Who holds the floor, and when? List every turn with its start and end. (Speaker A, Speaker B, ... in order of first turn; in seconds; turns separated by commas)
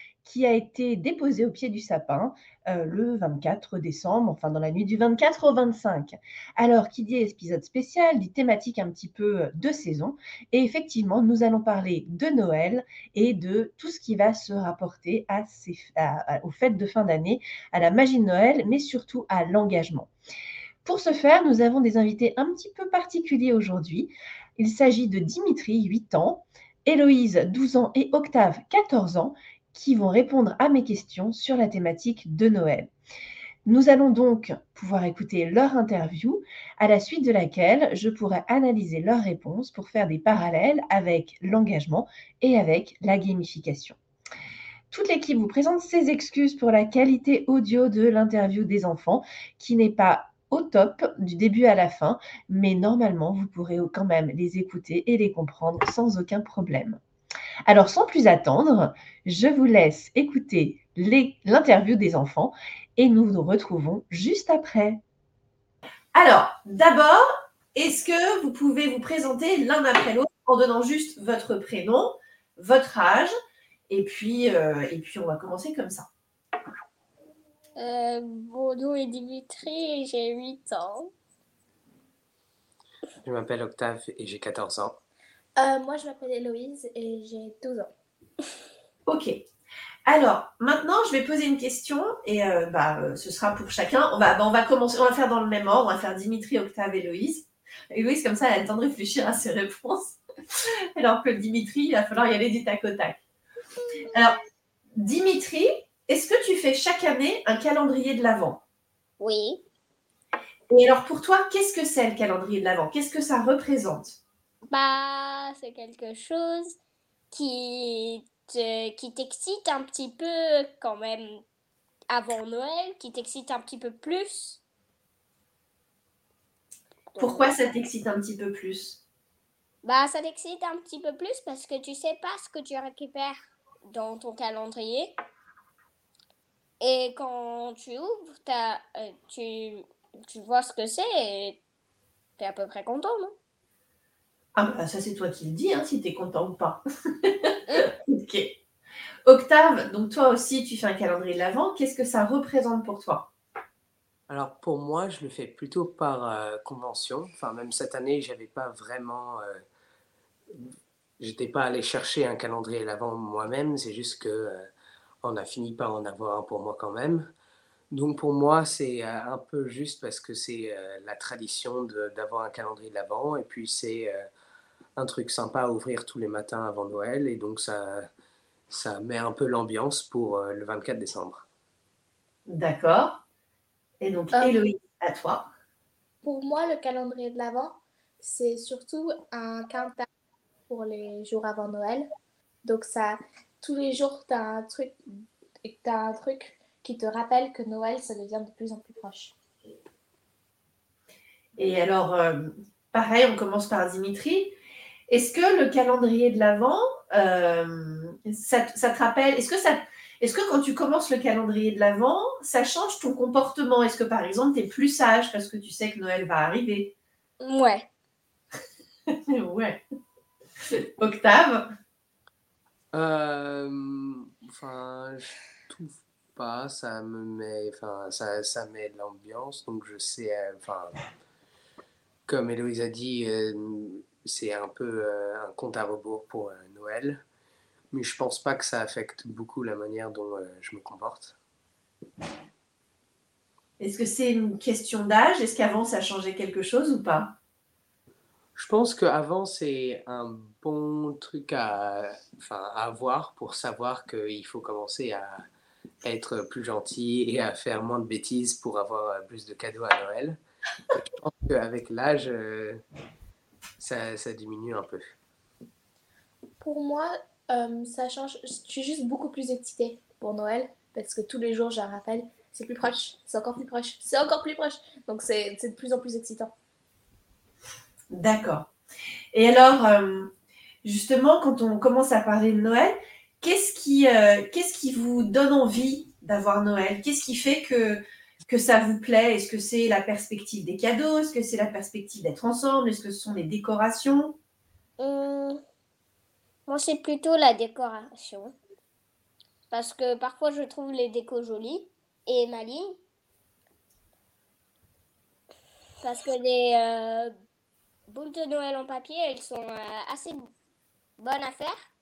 Speaker A: 0.2-20.1, Speaker A: 20.8-32.9, Speaker A: 33.6-44.0, Speaker A: 44.9-57.0, Speaker A: 57.6-65.0, Speaker A: 66.1-67.2, Speaker A: 67.7-73.3, Speaker A: 73.9-76.1, Speaker B: 77.8-81.1, Speaker C: 83.2-85.0, Speaker D: 85.6-87.9, Speaker A: 89.1-89.4, Speaker A: 90.0-100.2, Speaker A: 101.0-103.2, Speaker A: 104.1-104.4, Speaker A: 104.9-108.6, Speaker B: 109.2-109.6, Speaker A: 110.7-114.2, Speaker B: 114.7-116.8, Speaker B: 117.3-121.4, Speaker B: 122.1-124.6, Speaker B: 127.1-127.5, Speaker A: 127.2-129.0, Speaker B: 129.8-135.1, Speaker B: 136.8-141.6, Speaker B: 142.4-143.3, Speaker A: 144.5-148.5, Speaker A: 149.2-153.3, Speaker C: 154.3-159.6, Speaker C: 161.2-164.6, Speaker C: 165.2-167.3, Speaker C: 167.9-174.2, Speaker C: 175.0-178.1, Speaker C: 178.7-181.4, Speaker A: 182.4-183.2, Speaker A: 184.0-185.5, Speaker D: 186.2-190.1, Speaker D: 190.7-192.1, Speaker D: 192.6-195.0, Speaker D: 195.6-199.3, Speaker A: 201.6-204.6, Speaker A: 205.1-216.9, Speaker B: 217.4-217.9, Speaker A: 219.1-219.8, Speaker A: 220.6-221.7, Speaker C: 222.9-231.0, Speaker C: 232.3-237.2, Speaker C: 237.9-241.3, Speaker A: 243.8-247.3, Speaker C: 248.6-255.4, Speaker C: 256.0-260.4, Speaker C: 261.0-262.8, Speaker C: 263.8-265.1, Speaker D: 266.6-276.5, Speaker A: 278.1-278.7, Speaker A: 279.3-280.3, Speaker A: 280.8-294.4, Speaker B: 295.0-295.6, Speaker B: 296.7-298.5, Speaker B: 299.7-303.0, Speaker B: 306.0-307.3, Speaker B: 308.1-310.5, Speaker B: 311.2-311.8